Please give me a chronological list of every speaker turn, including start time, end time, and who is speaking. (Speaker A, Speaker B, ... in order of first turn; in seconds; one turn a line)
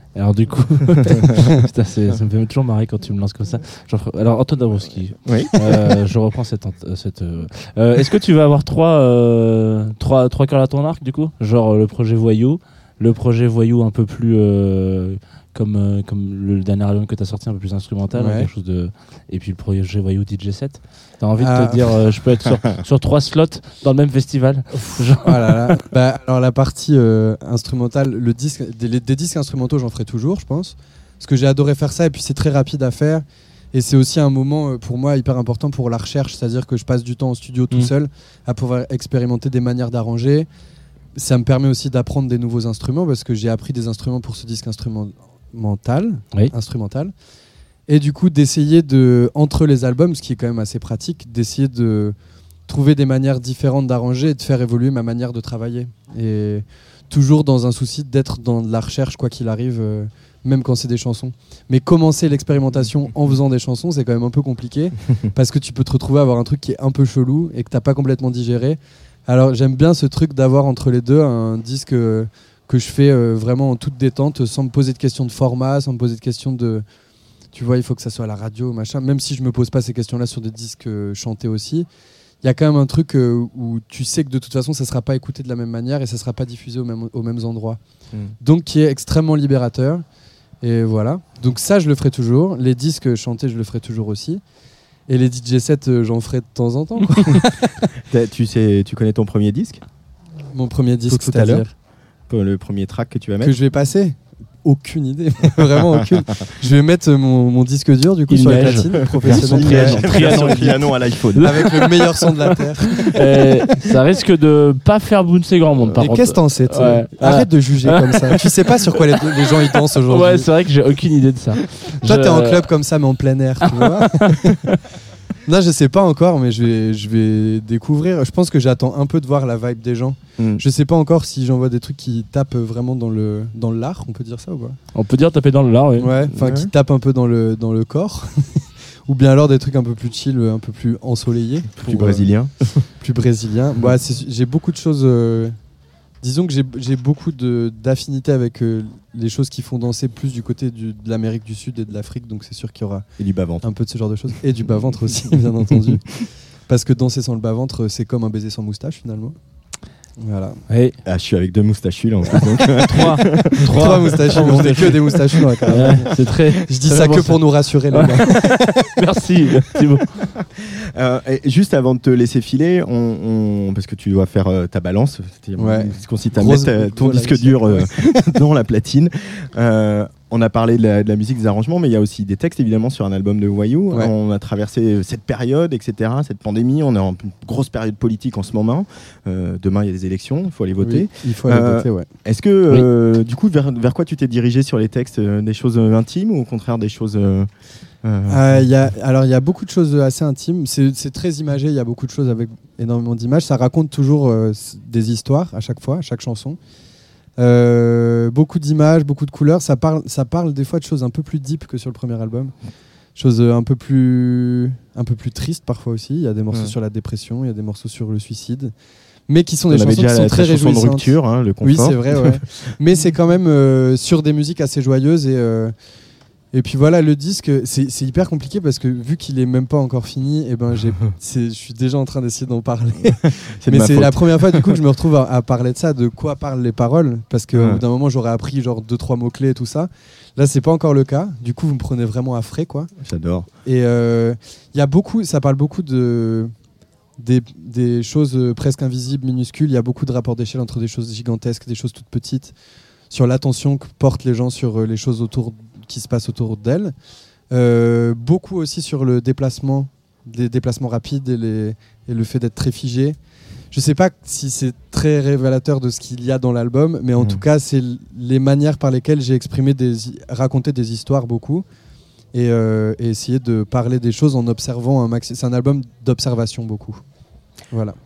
Speaker A: 0.1-25.8
Speaker B: 5.2-5.8
Speaker C: 18.1-18.5
Speaker C: 21.4-21.8
Speaker C: 25.2-40.5
Speaker C: 41.1-47.1
Speaker C: 47.9-52.1
Speaker C: 52.7-76.8
Speaker C: 77.5-81.9
Speaker C: 82.4-87.8
Speaker C: 88.4-90.0
Speaker C: 90.6-94.4
Speaker C: 95.1-97.4
Speaker B: 98.1-99.8
Speaker C: 100.5-101.7
Speaker B: 101.1-101.6
Speaker B: 102.3-103.5
Speaker C: 103.4-110.7
Speaker A: 108.3-112.1
Speaker B: 109.2-111.6
Speaker C: 111.4-113.0
Speaker A: 113.0-118.3
Speaker C: 116.0-120.5
Speaker A: 120.1-122.7
Speaker C: 122.0-124.2
Speaker A: 123.7-124.7
Speaker C: 125.5-134.8
Speaker A: 134.9-136.2
Speaker C: 136.0-142.2
Speaker B: 136.3-136.7
Speaker B: 141.8-142.8
Speaker C: 143.0-145.5
Speaker C: 146.2-153.1
Speaker B: 153.2-153.7
Speaker C: 153.6-156.0
Speaker C: 156.7-159.3
Speaker C: 160.2-160.6
Speaker A: 160.7-160.9
Speaker B: 161.0-164.9
Speaker A: 162.8-165.1
Speaker C: 163.8-166.1
Speaker B: 165.6-166.0
Speaker A: 165.7-170.1
Speaker C: 166.7-168.7
Speaker B: 170.6-197.5
Speaker C: 175.6-177.8
Speaker C: 190.8-192.1
Speaker B: 198.0-198.6
Speaker C: 198.3-206.6
Speaker C: 207.4-212.5
Speaker C: 213.1-218.7
Speaker C: 219.3-221.1
Speaker B: 219.7-222.4
Speaker C: 221.6-225.7
Speaker C: 226.5-242.9
Speaker B: 233.6-234.8
Speaker B: 237.5-237.8
Speaker B: 243.0-243.5
Speaker C: 243.6-246.5
Speaker C: 247.2-252.5
Speaker C: 253.1-256.9
Speaker C: 257.5-263.2
Speaker C: 263.7-271.6
Speaker C: 272.3-277.0
Speaker C: 277.7-277.9